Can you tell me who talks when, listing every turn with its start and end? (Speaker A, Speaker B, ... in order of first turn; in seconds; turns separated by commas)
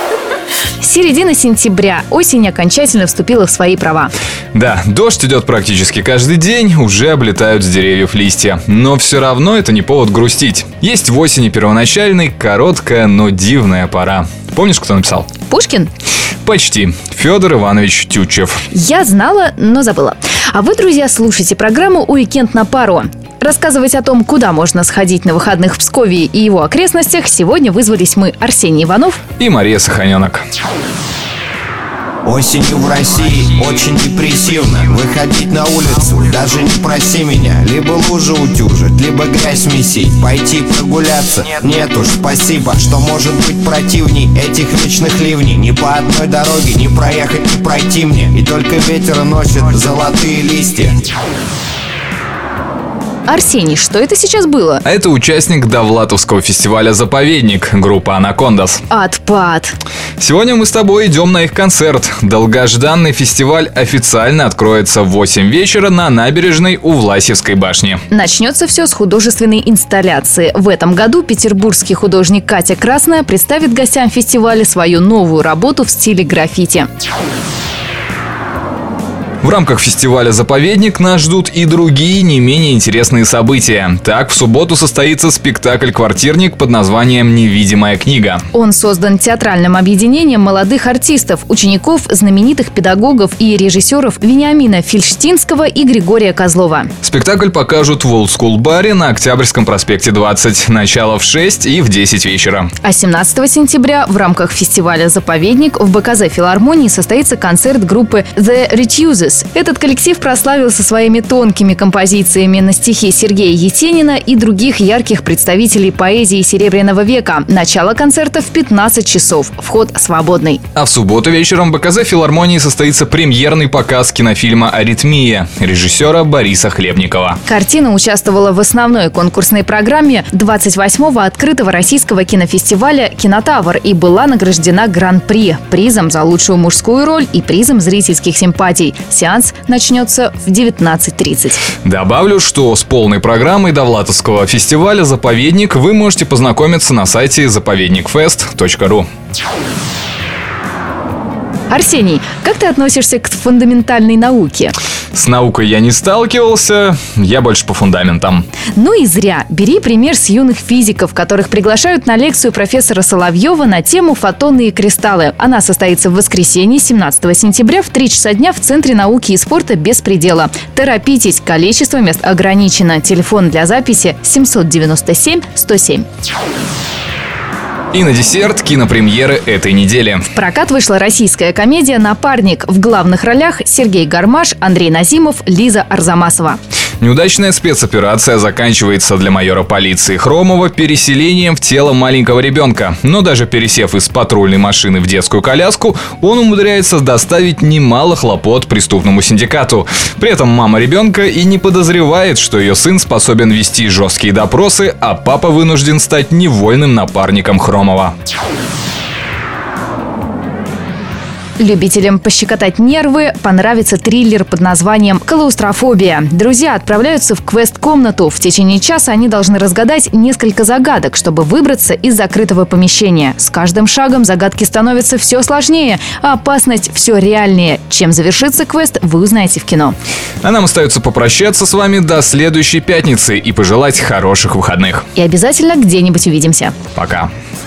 Speaker A: 0.8-4.1, Speaker B: 4.5-15.3, Speaker A: 15.5-15.9, Speaker B: 16.4-18.6, Speaker A: 18.7-29.2, Speaker B: 29.4-30.4, Speaker C: 32.2-51.1, Speaker A: 53.3-54.8, Speaker B: 54.8-58.8, Speaker A: 58.9-59.8, Speaker B: 60.2-68.0, Speaker A: 68.1-76.9, Speaker B: 79.4-88.4, Speaker A: 88.5-96.9, Speaker B: 97.0-102.7, Speaker A: 102.8-120.6, Speaker B: 120.8-127.4, Speaker A: 127.5-141.6, Speaker B: 141.8-149.1, Speaker A: 151.7-154.7, Speaker B: 155.1-158.4, Speaker A: 158.8-176.1, Speaker B: 177.9-180.2, Speaker A: 180.3-186.6, Speaker B: 187.0-208.1, Speaker A: 211.6-229.9, Speaker B: 230.4-235.0, Speaker A: 235.2-236.8, Speaker B: 236.9-237.3